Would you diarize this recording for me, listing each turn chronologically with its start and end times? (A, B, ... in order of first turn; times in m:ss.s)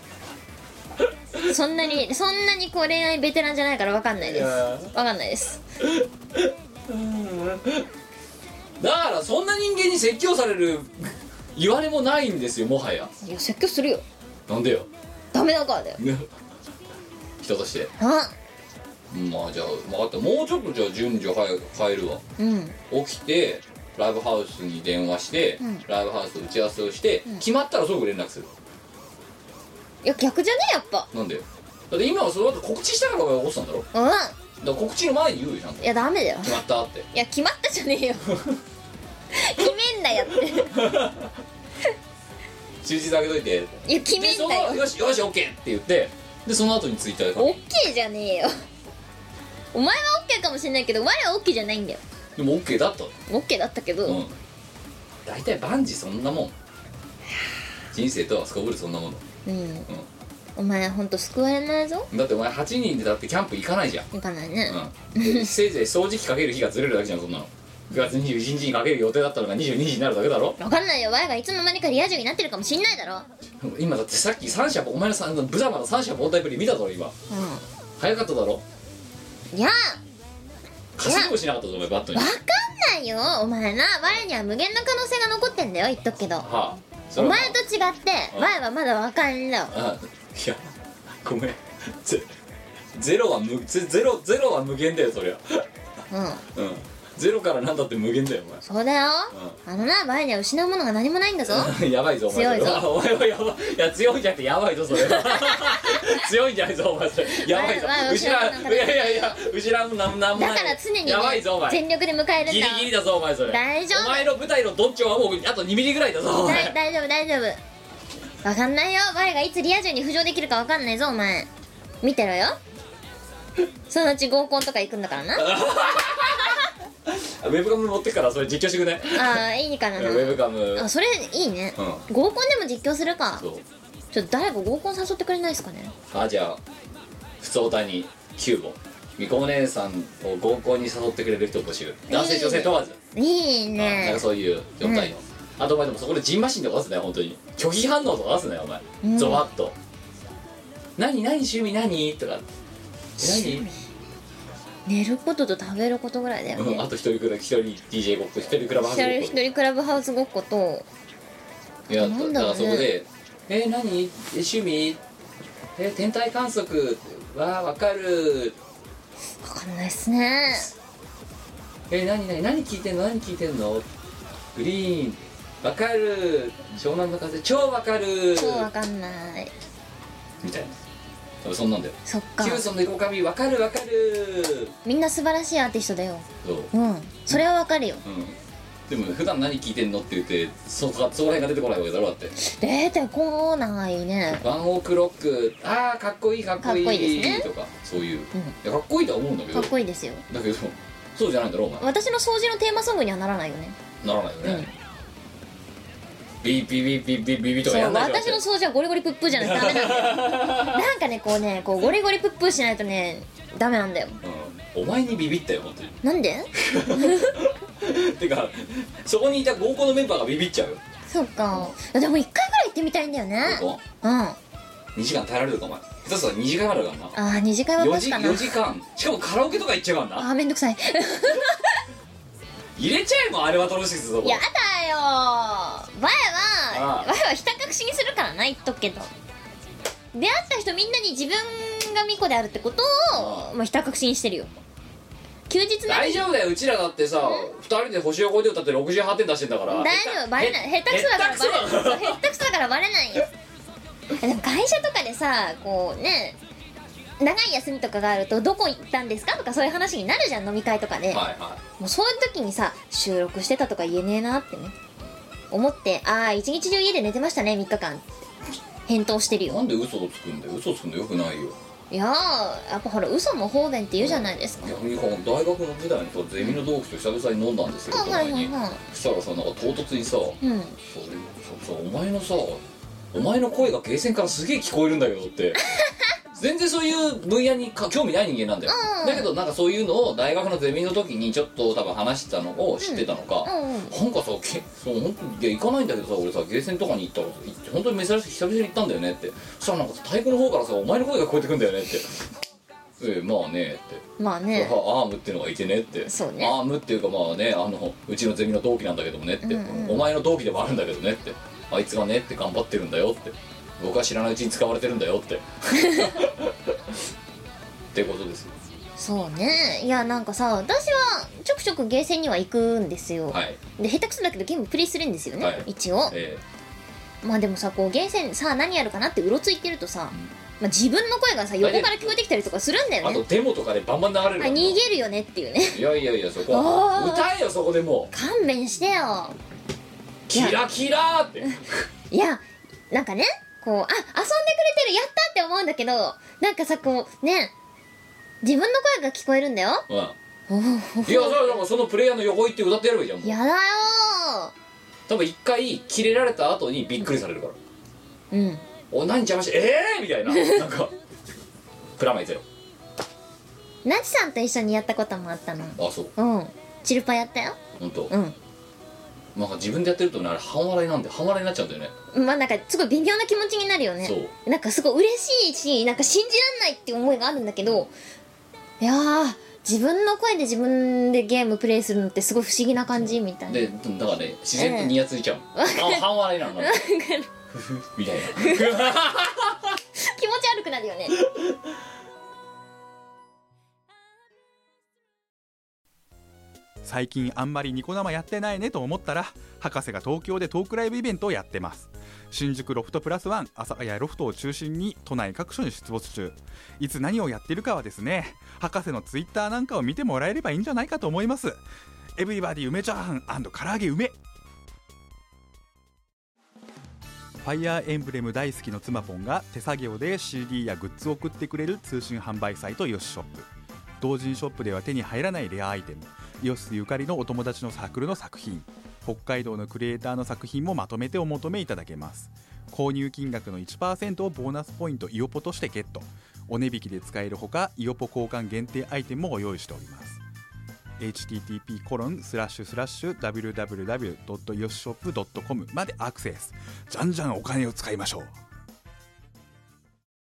0:01.4-0:05.6 A
0:04.2-0:04.9 B
0:05.8-0:07.9 B
0:08.8-0:13.1 B
0:13.2-0:14.0 A
0:14.5-0:14.9 B
0:15.3-0:16.0 A
0:16.0-0:16.3 B
0:17.4-0:17.9 B
0:18.0-0:18.3 A
0:19.1-0:22.2 B
0:22.4-0:22.8 A
0:22.9-0:28.5 B
0:30.0-0:31.1 A
0:31.1-0:33.9 B
0:33.9-0:34.3 A
0:34.6-0:35.9 B
0:35.8-0:36.6 A
0:36.4-0:37.1 B
0:37.1-0:38.4 A
0:39.3-0:40.7 A
0:40.6-0:41.3 B
0:42.8-0:47.5 B
0:43.8-0:44.8 A
0:47.4-0:48.5 A
0:49.7-0:52.0 A
0:52.4-0:53.2 B
0:53.3-0:54.2 A
0:54.0-0:54.3 B
0:55.2-0:56.5 B
0:57.9-0:59.2 B
0:59.4-0:59.9 A
1:00.6-1:02.1 A
1:02.1-1:04.1 B
1:04.1-1:05.5 A
1:04.7-1:10.6 B
1:10.6-1:13.3 A
1:13.6-1:17.1 B
1:17.3-1:17.6 A
1:18.0-1:18.6 B
1:19.5-1:20.0 A
1:21.0-1:22.4 B
1:21.0-1:21.3 A
1:22.1-1:26.5 A
1:26.4-1:27.6 B
1:27.2-1:29.7 A
1:29.7-1:32.3 B
1:32.9-1:35.6 B
1:36.1-1:36.4 A
1:36.5-1:38.6 B
1:38.6-1:41.7 A
1:39.3-1:39.6 B
1:41.5-1:51.8 B
1:42.3-1:42.8 A
1:44.9-1:46.2 A
1:47.3-1:49.4 A
1:50.3-1:52.9 A
1:52.4-1:56.8 B
1:53.5-1:54.3 A
1:56.4-1:57.6 A
1:58.4-2:01.5 A
2:02.0-2:02.6 A
2:03.9-2:05.5 A
2:05.4-2:09.4 B
2:09.1-2:13.4 A
2:10.0-2:10.9 B
2:11.8-2:12.0 B
2:13.4-2:13.6 B
2:14.1-2:15.9 A
2:16.1-2:16.6 B
2:17.4-2:23.0 B
2:22.1-2:24.2 A
2:23.8-2:29.7 B
2:24.8-2:25.1 A
2:29.0-2:29.4 A
2:31.0-2:32.4 B
2:33.2-2:33.6 B
2:33.2-2:33.7 A
2:34.9-2:36.8 A
2:36.6-2:39.4 B
2:38.8-2:40.8 A
2:41.9-2:42.9 A
2:41.9-2:45.0 B
2:45.8-2:48.6 B
2:49.4-2:50.7 A
2:51.9-2:53.8 B
2:54.5-2:58.7 B
2:58.4-2:59.5 A
3:00.4-3:00.8 B
3:01.4-3:04.7 B
3:02.0-3:02.6 A
3:04.8-3:08.0 A
3:06.4-3:06.7 B
3:08.0-3:08.4 B
3:08.9-3:12.3 B
3:12.4-3:14.4 A
3:14.4-3:19.7 B
3:16.6-3:17.5 A
3:19.5-3:20.2 A
3:20.3-3:21.8 B
3:21.8-3:23.8 A
3:24.0-3:24.7 B
3:24.4-3:24.7 A
3:26.4-3:28.4 B
3:27.6-3:34.2 A
3:29.4-3:30.8 B
3:34.2-3:36.0 B
3:36.0-3:37.3 A
3:36.5-3:40.8 B
3:41.1-3:44.4 A
3:43.4-3:43.8 B
3:45.0-3:47.2 B
3:47.1-3:48.5 A
3:47.8-3:50.3 B
3:50.2-3:51.8 A
3:52.8-3:54.4 B
3:54.2-3:59.1 A
3:56.7-3:57.1 B
4:00.1-4:04.5 A
4:03.1-4:03.5 B
4:05.5-4:06.2 A
4:05.9-4:12.2 B
4:09.7-4:13.3 A
4:14.1-4:16.4 A
4:17.2-4:21.2 A
4:21.1-4:21.6 B
4:21.8-4:24.7 A
4:25.5-4:28.0 A
4:28.9-4:29.6 A
4:29.4-4:31.6 B
4:31.9-4:34.7 A
4:34.0-4:45.6 B
4:37.9-4:38.8 A
4:40.4-4:40.8 A
4:45.6-4:46.1 A
4:46.3-5:02.3 B
4:48.7-4:49.3 A
4:52.8-4:54.0 A
5:03.0-5:17.0 B
5:04.2-5:04.8 A
5:06.1-5:06.5 A
5:09.4-5:10.0 A
5:15.8-5:16.2 A
5:17.9-5:18.6 B
5:19.0-5:26.1 A
5:23.3-5:23.6 B
5:25.4-5:26.4 B
5:27.2-5:33.2 A
5:31.6-5:32.2 B
5:33.0-5:34.8 B
5:34.4-5:35.8 A
5:35.7-5:38.1 B
5:36.5-5:37.3 A
5:38.1-5:39.4 A
5:40.3-5:41.8 B
5:42.1-5:47.5 A
5:48.4-5:49.8 A
5:49.9-5:50.1 B
5:50.5-5:51.5 A
5:51.0-5:53.4 B
5:53.2-5:54.5 A
5:55.1-5:57.6 B
5:58.3-5:58.6 A
5:58.9-6:00.9 B
6:00.3-6:00.6 A
6:02.0-6:02.4 B
6:03.8-6:08.4 A
6:05.8-6:06.1 B
6:07.8-6:08.1 B
6:09.3-6:11.9 B
6:12.1-6:17.9 A
6:14.0-6:14.3 B
6:18.8-6:23.6 A
6:23.5-6:26.8 B
6:24.6-6:24.9 A
6:25.6-6:27.3 A
6:27.6-6:29.8 B
6:28.3-6:28.9 A
6:30.0-6:31.2 A
6:31.2-6:31.5 B
6:36.8-6:51.6 C
6:52.2-6:54.2 C
6:57.4-7:03.5 C
7:04.0-7:20.2 C
7:21.0-7:28.3 C